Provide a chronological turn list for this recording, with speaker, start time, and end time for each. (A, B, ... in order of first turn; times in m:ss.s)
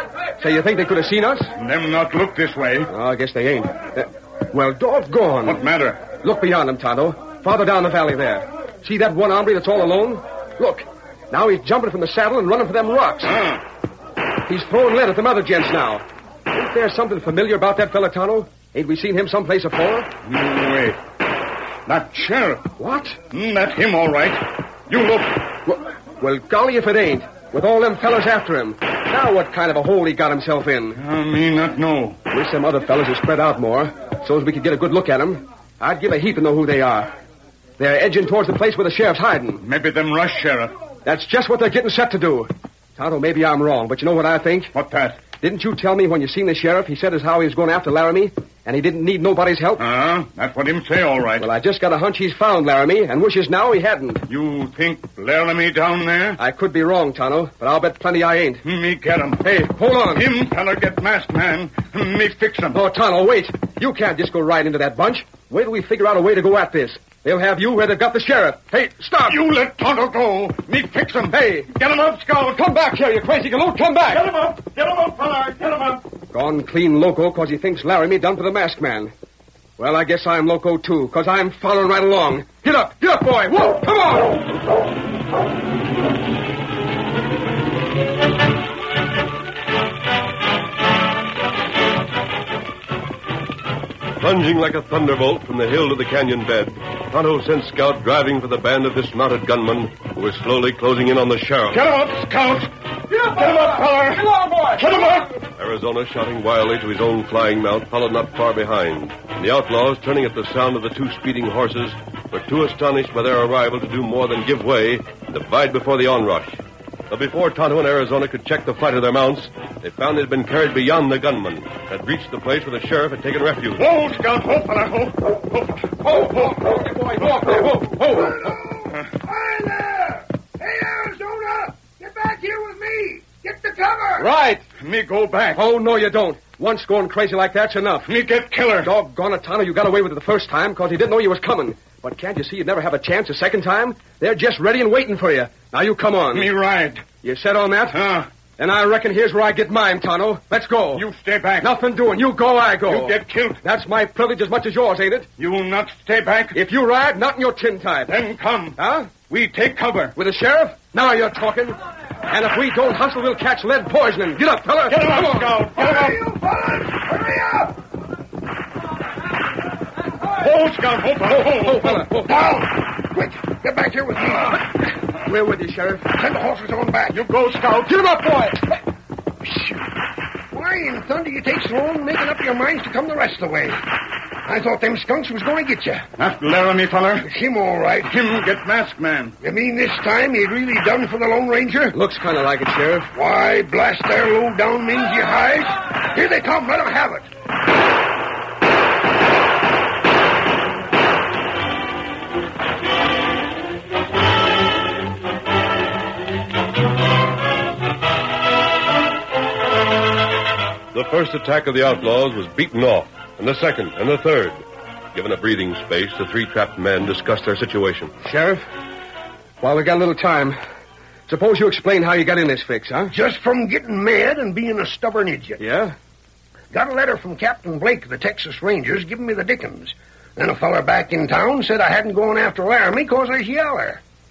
0:00.4-0:01.5 A
0:01.6-0:02.9 B
0:02.9-0:13.3 A
0:05.4-0:06.1 B
0:13.2-0:13.6 B
0:14.4-0:20.1 A
0:20.2-0:21.0 B
0:21.8-0:22.7 B
0:22.8-0:23.2 A
0:23.3-0:25.5 B
0:25.6-0:31.0 A
0:30.9-0:32.2 B
0:32.3-0:37.1 A
0:37.8-0:39.6 A
0:39.6-0:40.7 B
0:41.0-0:44.7 A
0:44.7-0:45.2 B
0:45.4-0:49.8 A
0:49.8-0:51.5 B
0:51.4-0:54.2 A
0:54.3-0:56.4 B
0:56.4-0:58.6 A
0:58.6-0:59.5 B
0:59.4-1:00.3 A
1:00.0-1:02.8 B
1:02.7-1:09.4 A
1:09.3-1:12.7 B
1:11.3-1:11.7 A
1:12.5-1:14.2 A
1:14.1-1:16.0 B
1:16.3-1:19.1 A
1:19.8-1:24.4 A
1:34.2-1:41.8 C
1:41.7-1:45.3 B
1:43.2-1:45.0 A
1:45.6-2:03.8 C
2:03.8-2:06.7 B
2:06.0-2:08.5 A
2:08.4-2:14.3 D
2:14.2-2:14.6 A
2:14.8-2:15.6 B
2:15.5-2:18.1 A
2:18.0-2:18.9 B
2:18.8-2:26.5 A
2:26.3-2:27.0 B
2:27.2-2:28.0 A
2:27.9-2:28.3 B
2:28.6-2:31.0 A
2:30.9-2:31.7 B
2:31.6-2:35.3 A
2:32.8-2:33.6 B
2:35.4-2:36.6 B
2:36.5-2:38.2 A
2:38.0-2:40.1 B
2:38.8-2:39.2 A
2:40.2-2:45.6 A
2:44.9-2:46.2 B
2:45.8-2:47.8 D
2:50.4-2:52.1 B
2:51.3-2:52.3 A
2:52.2-2:54.6 D
2:55.2-2:56.1 A
2:56.1-2:57.2 D
2:57.1-2:58.0 B
2:57.8-2:58.6 A
3:00.5-3:03.8 D
3:04.4-3:06.1 D
3:06.2-3:07.3 B
3:07.2-3:08.1 D
3:08.0-3:09.4 B
3:09.4-3:12.0 D
3:11.9-3:13.1 A
3:13.1-3:17.3 D
3:30.9-3:34.6 C
3:35.1-3:38.1 C
3:38.2-3:38.6 A
3:39.6-3:40.6 A
3:41.3-3:43.1 A
3:43.1-3:45.6 D
3:45.6-3:45.9 A
3:46.7-3:54.0 D